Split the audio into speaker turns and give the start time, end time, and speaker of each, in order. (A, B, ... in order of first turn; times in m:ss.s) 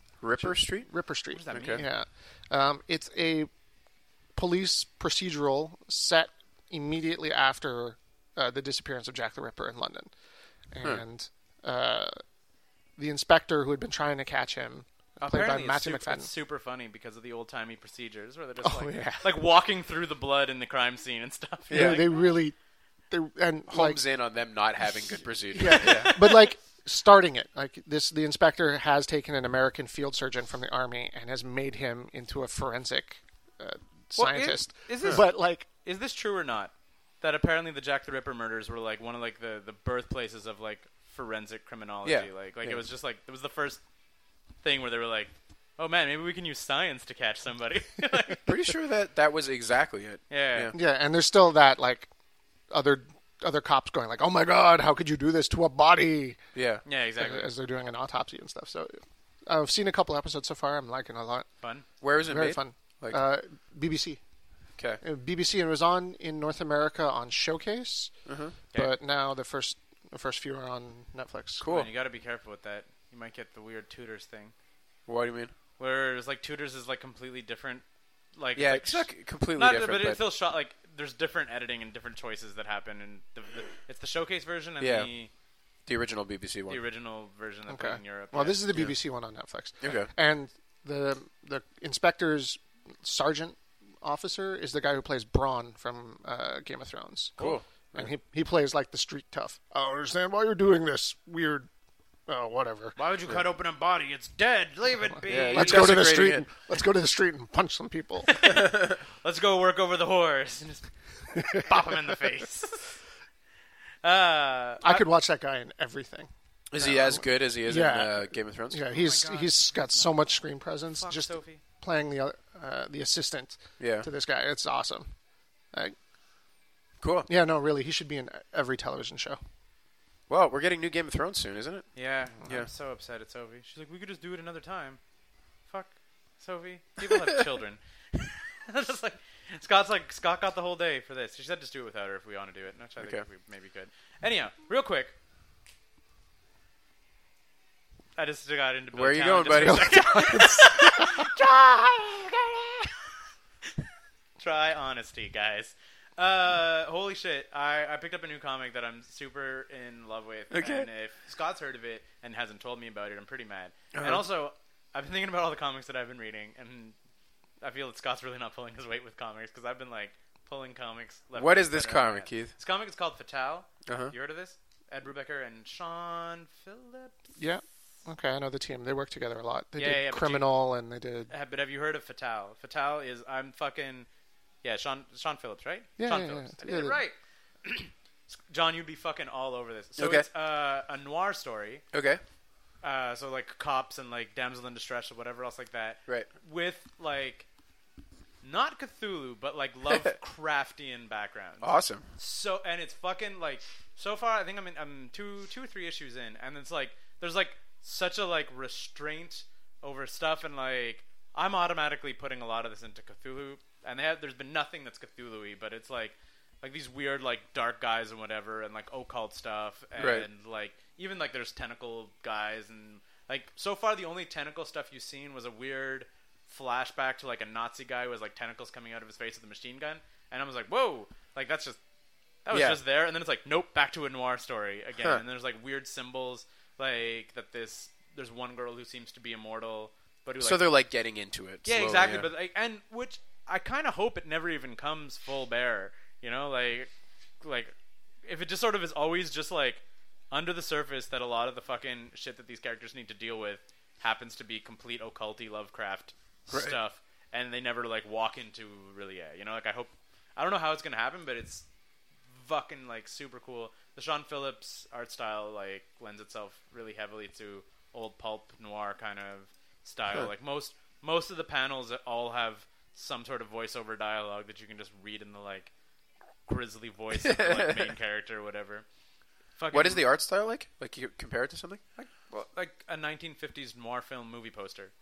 0:00.2-0:00.9 A
0:00.4-0:03.5 B
0:01.3-0:01.9 C
0:01.5-0:01.8 A
0:04.4-0:10.1 B
0:10.7-0:12.2 B
0:13.0-0:16.3 B
0:15.2-0:22.2 C
0:18.6-0:19.3 B
0:21.7-0:22.1 A
0:21.7-0:22.5 B
0:23.1-0:24.0 B
0:23.7-0:26.1 A
0:25.5-0:35.7 B
0:25.6-0:26.5 C
0:34.1-0:43.8 C
0:42.0-0:42.8 A
0:44.6-0:48.5 C
0:48.4-0:50.7 A
0:50.3-0:50.7 C
0:50.7-0:52.1 B
0:52.7-0:56.4 B
0:56.5-0:56.8 A
0:56.8-0:57.5 C
0:57.2-1:01.5 B
1:02.0-1:03.2 A
1:02.2-1:04.2 B
1:05.0-1:08.1 B
1:08.2-1:08.6 A
1:08.7-1:11.6 B
1:11.6-1:11.9 A
1:11.6-1:14.5 C
1:15.1-1:15.5 A
1:15.8-1:25.3 C
1:18.6-1:20.2 A
1:24.8-1:25.1 A
1:25.8-1:26.8 A
1:26.7-1:28.7 C
1:27.7-1:41.7 B
1:29.8-1:30.1 A
1:37.4-1:38.1 A
1:42.3-1:43.0 B
1:43.0-1:46.0 C
1:45.3-1:46.4 A
1:45.3-1:48.4 B
1:48.3-1:52.9 C
1:48.5-1:49.0 A
1:51.3-1:52.0 B
1:54.0-1:55.0 C
1:54.8-2:05.1 B
1:56.7-1:58.8 A
1:58.9-2:00.1 C
2:01.0-2:01.6 C
2:03.8-2:04.1 A
2:07.0-2:07.3 A
2:07.3-2:09.4 B
2:10.3-2:11.9 A
2:11.9-2:15.0 C
2:12.4-2:12.7 A
2:15.7-2:25.1 C
2:28.2-2:31.4 C
2:28.9-2:30.2 A
2:29.5-2:32.9 B
2:34.4-2:46.9 C
2:40.5-2:40.9 A
2:43.9-2:44.2 A
2:47.6-2:57.4 C
2:51.4-2:52.5 A
2:53.8-2:54.1 A
2:57.4-3:01.3 B
2:59.8-3:00.5 C
3:01.3-3:04.1 C
3:04.6-3:07.9 C
3:06.0-3:07.0 B
3:08.5-3:11.8 C
3:10.0-3:10.3 A
3:11.9-3:12.2 A
3:12.8-3:17.5 C
3:18.4-3:51.8 C
3:21.6-3:22.0 A
3:40.0-3:40.3 A
3:52.4-4:00.8 C
3:52.5-3:52.8 A
4:00.4-4:02.3 A
4:01.6-4:06.9 C
4:07.4-4:21.6 C
4:16.5-4:16.8 A
4:22.3-4:35.7 C
4:36.5-4:38.8 C
4:37.2-4:37.9 A
4:39.6-4:40.1 C
4:39.7-4:41.8 A
4:42.0-4:44.9 C